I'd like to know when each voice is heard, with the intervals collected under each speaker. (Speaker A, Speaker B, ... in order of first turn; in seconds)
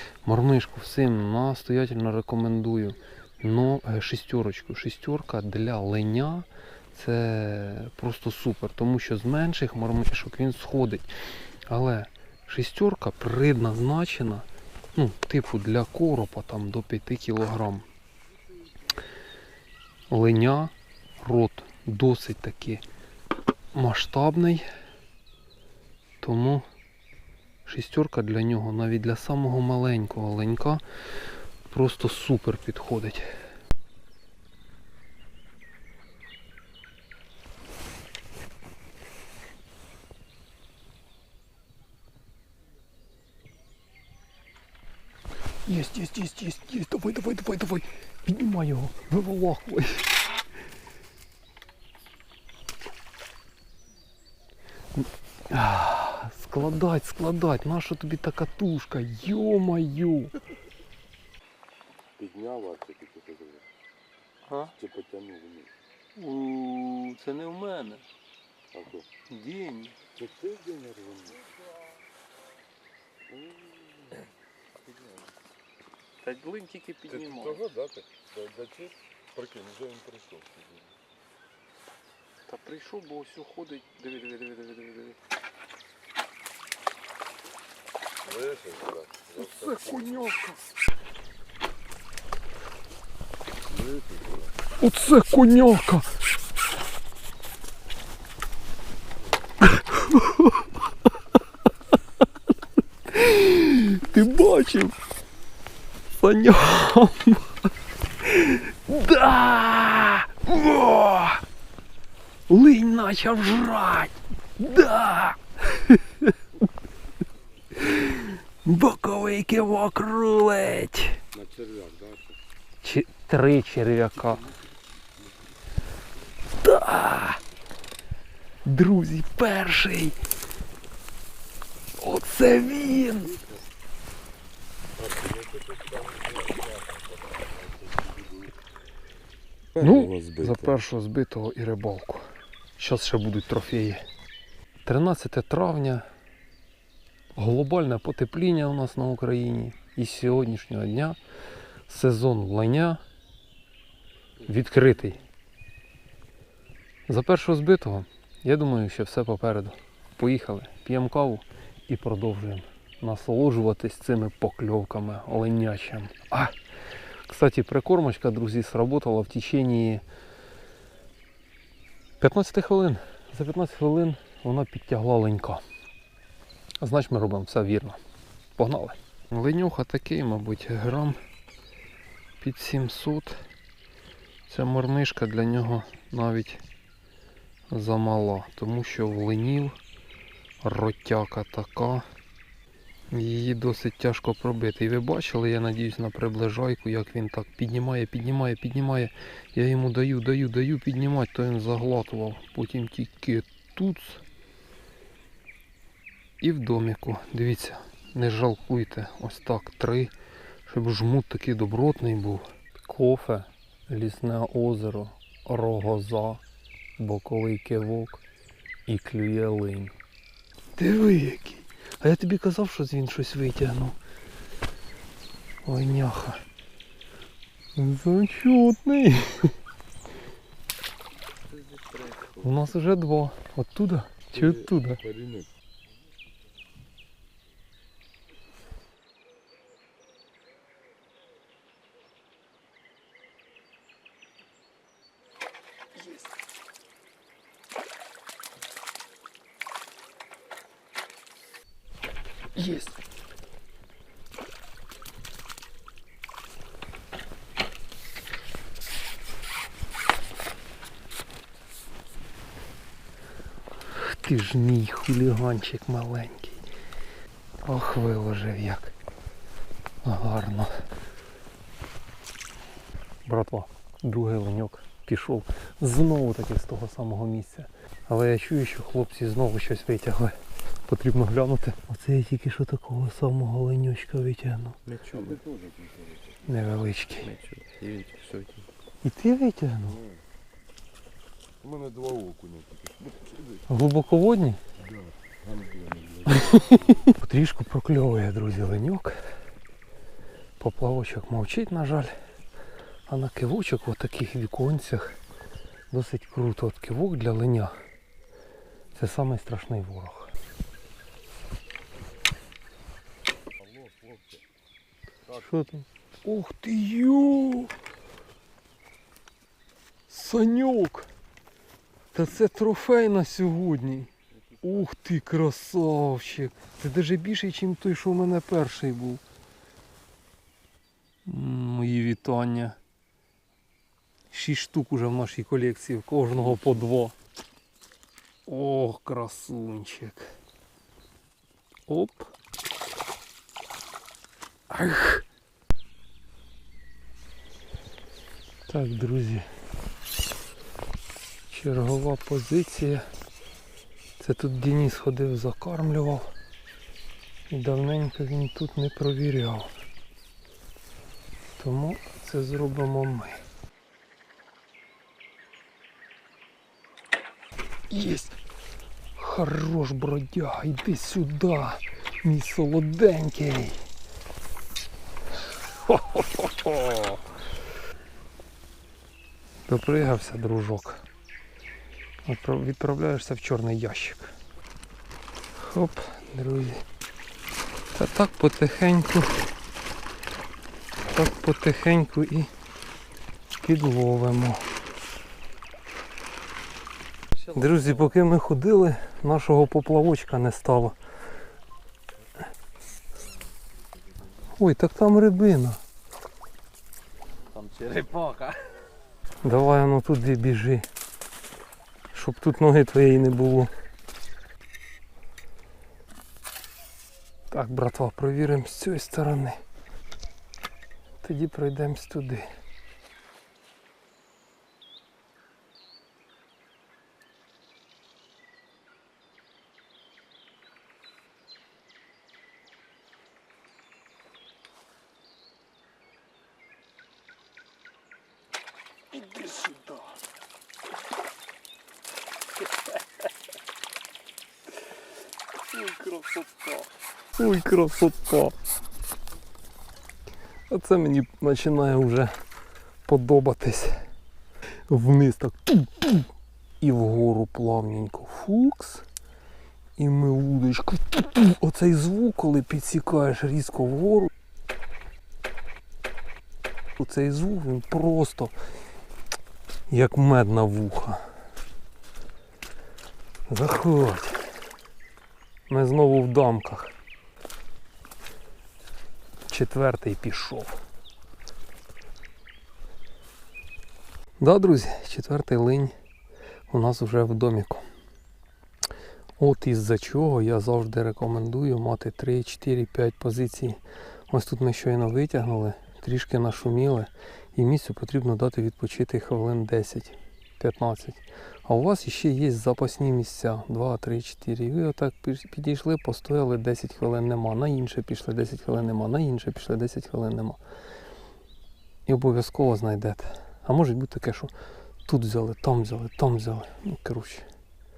Speaker A: 0.2-11.1, 11.7-17.9, 20.1-22.8, 23.7-24.6, 26.2-26.6, 27.6-30.8, 31.7-33.3, 45.6-50.1, 54.9-60.4, 64.5-64.7, 66.2-68.0, 69.3-70.0, 76.2-77.7, 82.5-85.2, 89.4-90.6, 94.8-96.1, 99.6-100.7, 103.1-104.9, 106.2-107.7, 108.2-111.4, 112.5-116.3, 117.8-121.2, 122.8-124.5, 126.6-127.4, 128.6-130.2, 132.0-133.4, 139.8-142.2, 142.8-144.0, 144.8-146.1, 147.3-151.2, 151.9-153.0, 154.4-155.2, 157.1-166.5, 167.3-170.0, 172.2-175.6, 176.8-178.0, 178.6-181.2, 182.4-183.4, 184.5-186.6, 187.7-189.7, 190.6-192.1, 193.1-204.2, 206.4-210.1, 210.7-216.4, 217.0-218.2, 218.9-219.9, 220.8-224.0, 225.6-226.4, 227.7-229.5, 232.4-235.0, 252.6-252.9, 263.9-266.6, 267.6-268.9, 270.0-270.7, 273.2-284.8, 286.4-287.3, 289.0-290.0, 293.7-294.6, 296.3-299.2, 300.6-302.1, 303.1-305.2, 305.9-307.8, 308.9-310.3, 315.3-317.7, 320.1-321.1, 322.1-324.1, 324.6-329.2, 331.2-332.8, 334.3-337.1, 338.5-340.3, 341.9-342.3, 344.7-345.2, 348.7-349.4, 351.5-353.1, 354.2-356.3, 357.5-359.7, 361.6-363.4, 367.9-368.4, 369.1-373.8, 375.8-377.2, 379.7-381.0, 382.2-384.3, 385.6-386.8, 387.9-389.3, 391.1-392.5, 393.6-394.6, 397.5-400.9, 404.5-405.8, 409.4-410.9, 412.1-413.7, 417.5-419.6, 421.2-422.4, 439.1-440.2, 445.6-448.5, 450.7-452.3, 453.0-454.0, 454.9-459.1, 460.0-464.3, 466.9-468.5, 469.9-471.2, 473.5-474.4, 475.7-476.9, 479.4-480.8, 484.4-485.9, 486.7-487.8, 489.4-510.6, 512.0-514.5, 515.0-517.5
Speaker B: 62.2-63.6, 64.8-65.7, 68.7-69.1, 70.1-71.4, 73.3-74.2, 77.1-80.9, 88.2-90.0, 93.7-94.5, 121.3-122.3, 135.0-138.5, 139.8-140.7, 234.3-235.5, 285.1-286.3, 289.8-290.2, 291.6-293.6, 294.8-296.6, 313.6-314.4
Speaker C: 231.5-232.6, 284.9-285.4, 287.2-288.7, 397.5-397.8, 407.5-408.8